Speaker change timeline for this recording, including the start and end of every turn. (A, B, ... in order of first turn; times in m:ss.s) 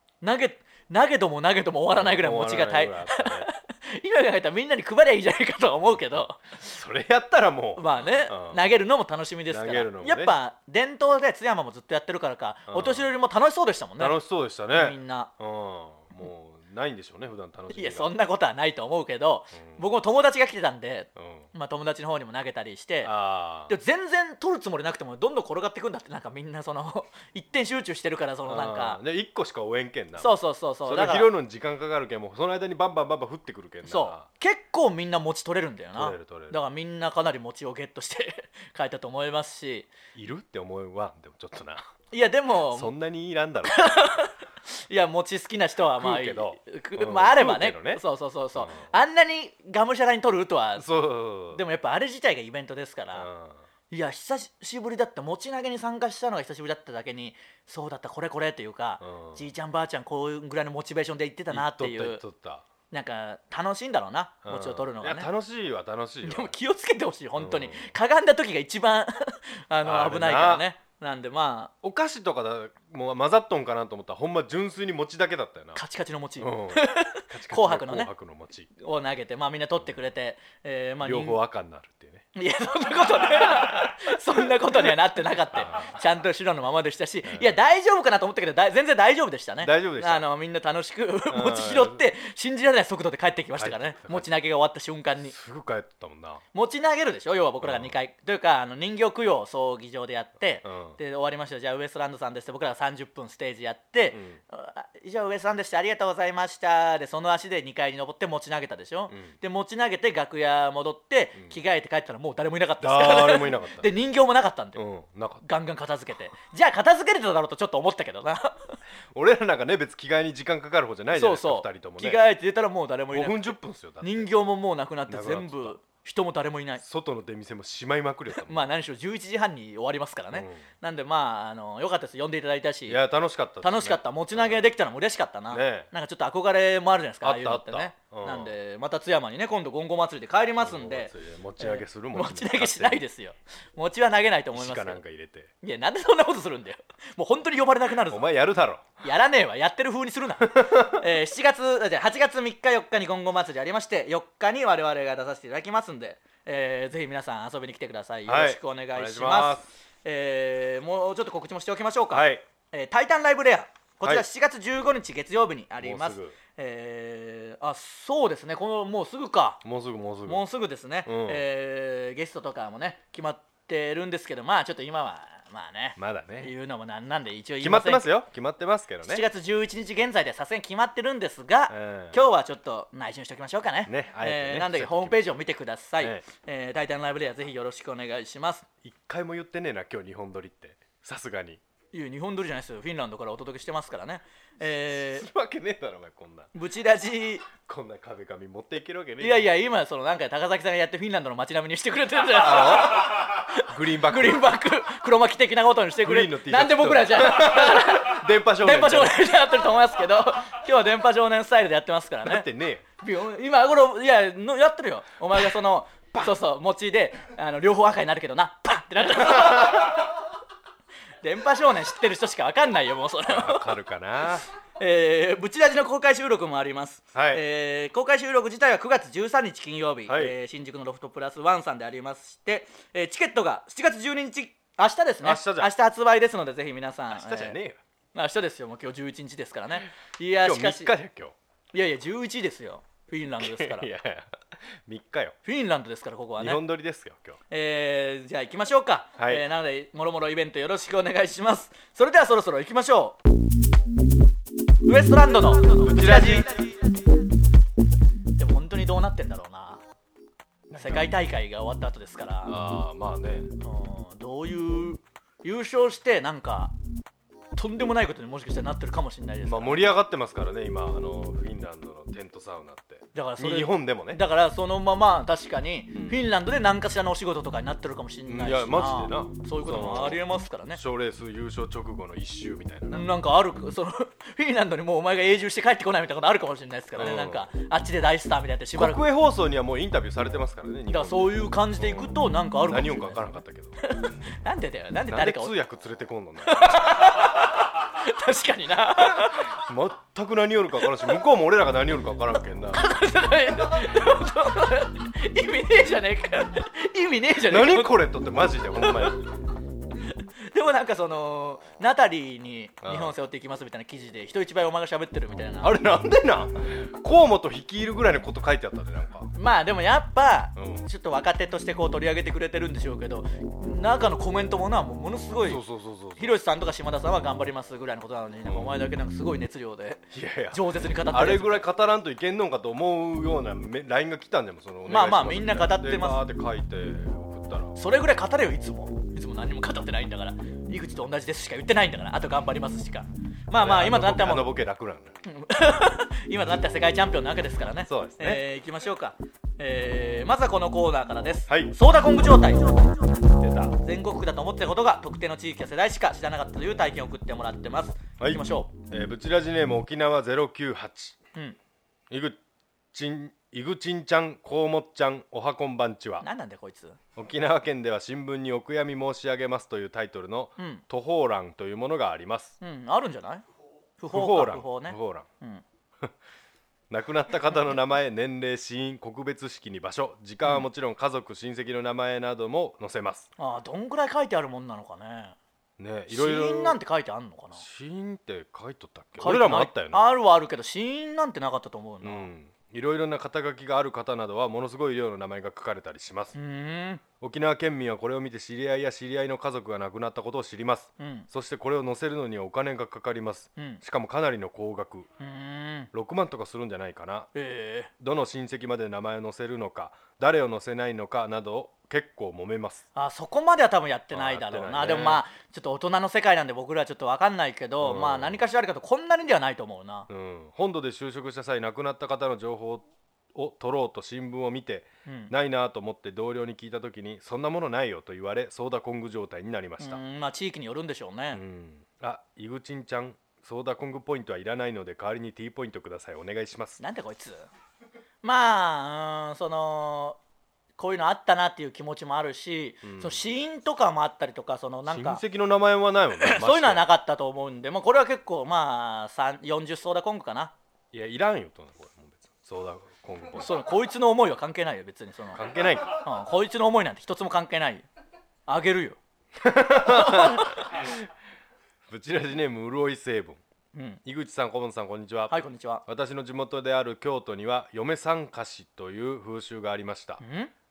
0:00.2-0:06.6 A
0:01.9-0:03.5 B
0:06.1-0:08.6 B
0:07.8-0:14.2 A
0:09.5-0:10.4 B
0:12.7-0:13.1 B
0:14.0-0:18.1 B
0:14.7-0:15.3 A
0:17.7-0:23.1 A
0:19.6-0:19.8 B
0:21.2-0:21.5 B
0:23.0-0:23.7 B
0:23.7-0:29.0 A
0:28.4-0:34.3 B
0:30.2-0:31.3 A
0:33.8-0:39.9 A
0:36.0-0:36.6 B
0:40.1-0:41.8 B
0:42.1-0:42.9 A
0:42.7-0:43.8 B
0:43.6-0:50.9 A
0:46.0-0:48.0 B
0:48.6-0:48.9 B
0:50.8-0:51.6 B
0:51.5-0:53.3 A
0:53.1-0:53.6 B
0:53.9-1:02.2 A
0:59.0-0:59.4 B
1:01.5-1:02.6 B
1:02.9-1:05.3 A
1:04.4-1:06.5 B
1:06.2-1:11.7 A
1:07.4-1:07.9 B
1:09.8-1:10.6 B
1:11.8-1:15.8 B
1:15.8-1:18.1 A
1:16.4-1:18.7 B
1:18.8-1:21.4 A
1:21.0-1:22.2 B
1:22.3-1:35.3 A
1:25.5-1:25.9 B
1:27.3-1:27.5 B
1:29.6-1:30.3 B
1:31.3-1:32.0 B
1:33.6-1:34.3 B
1:35.3-1:36.4 B
1:36.5-1:54.8 A
1:37.6-1:37.9 B
1:40.6-1:41.0 B
1:44.1-1:44.4 B
1:52.8-1:53.9 B
1:54.8-1:55.4 B
1:55.4-1:58.8 A
1:59.1-2:02.2 B
2:01.1-2:06.8 A
2:03.1-2:04.3 B
2:05.1-2:05.7 B
2:06.8-2:08.6 B
2:08.4-2:13.0 A
2:10.3-2:10.6 B
2:12.9-2:14.6 B
2:13.6-2:25.0 A
2:15.5-2:15.9 B
2:17.2-2:18.5 B
2:20.6-2:23.0 B
2:24.5-2:25.5 B
2:25.6-2:28.2 A
2:28.1-2:28.8 B
2:29.0-2:49.6 A
2:30.5-2:31.0 B
2:38.2-2:39.7 B
2:42.1-2:42.4 B
2:45.8-2:46.4 B
2:49.6-2:50.4 B
2:50.2-2:58.0 A
2:51.0-2:51.4 B
2:56.0-2:56.5 B
2:57.6-2:59.2 B
2:59.0-3:08.6 A
3:01.7-3:02.2 B
3:03.8-3:05.4 B
3:08.8-3:11.6 B
3:11.9-3:15.3 A
3:14.9-3:16.5 B
3:16.5-3:17.5 A
3:17.5-3:19.5 B
3:19.2-3:32.4 A
3:22.3-3:24.5 B
3:26.0-3:29.2 B
3:32.2-3:32.8 B
3:33.0-3:40.1 A
3:39.3-3:39.9 B
3:41.2-3:43.7 A
3:43.3-3:44.4 B
3:44.8-3:57.6 A
3:47.1-3:47.4 B
3:50.1-3:50.3 B
3:55.2-3:55.7 B
3:57.1-3:57.8 B
3:58.1-4:00.9 A
4:00.4-4:01.3 B
4:01.7-4:03.9 A
4:03.4-4:05.4 B
4:05.4-4:06.6 A
4:06.4-4:07.4 B
4:07.5-4:13.2 A
4:09.2-4:09.4 B
4:14.8-4:16.7 A
4:15.7-4:16.7 B
4:18.4-4:19.8 A
4:20.7-4:21.1 B
4:20.8-4:22.6 A
4:22.4-4:23.5 B
4:23.6-4:26.7 A
4:27.6-4:29.9 A
4:29.4-4:34.2 B
4:33.1-4:40.8 A
4:35.9-4:36.2 B
4:38.3-4:43.1 B
4:42.9-4:49.0 A
4:46.9-4:47.4 B
4:48.8-4:53.8 B
4:50.9-4:53.2 A
4:53.8-4:55.5 A
4:55.1-4:57.4 B
4:56.4-4:59.6 A
4:59.0-5:02.9 B
5:02.7-5:08.0 A
5:07.4-5:09.3 B
5:08.8-5:09.2 A
5:10.0-5:15.8 A
5:12.8-5:13.1 B
5:15.6-5:19.3 B
5:19.3-5:25.6 A
5:20.6-5:20.9 B
5:25.4-5:26.4 B
5:26.2-5:31.6 A
5:28.5-5:28.7 B
5:30.1-5:37.8 B
5:34.9-5:36.2 A
5:37.7-5:44.5 A
5:43.6-5:45.2 B
5:45.2-5:53.0 A
5:47.9-5:48.4 B
5:51.5-5:51.7 B
5:53.4-5:53.7 B
5:53.7-5:58.7 A
5:58.2-6:01.2 B
6:02.1-6:02.4 B
6:02.9-6:06.2 B
6:06.2-6:07.0 A
6:07.2-6:12.6 B
6:10.6-6:10.8 A
6:12.6-6:13.4 A
6:14.0-6:15.6 A
6:14.1-6:15.2 B
6:16.9-6:23.3 B
6:23.4-6:25.4 A
6:25.8-6:26.8 B
6:26.1-6:27.6 A
6:27.6-6:30.0 B
6:29.2-6:32.3 A
6:32.0-6:36.3 B
6:36.3-6:37.0 A
6:37.2-6:45.1 B
6:41.0-6:41.3 A
6:45.2-6:45.9 A
6:45.9-6:47.3 B
6:47.3-6:47.9 A
6:48.0-6:52.8 B
6:53.0-7:00.1 A
6:54.1-6:55.2 B
6:57.8-6:58.4 B
7:00.1-7:10.0 B
7:05.0-7:05.3 A
7:09.8-7:11.4 A
7:11.3-7:16.8 B
7:16.8-7:17.5 A
7:18.2-7:20.2 A
7:20.8-7:25.2 A
7:22.8-7:23.2 B
7:24.9-7:26.9 B
7:26.2-7:30.5 A
7:30.9-7:33.5 B
7:33.4-7:37.8 A
7:35.3-7:36.0 B
7:38.5-7:39.0 A
7:39.4-7:41.1 B
7:39.7-7:40.7 A
7:41.9-7:43.4 B
7:43.7-7:44.0 A
7:44.0-7:50.2 B
7:45.3-7:45.8 A
7:50.2-7:50.5 A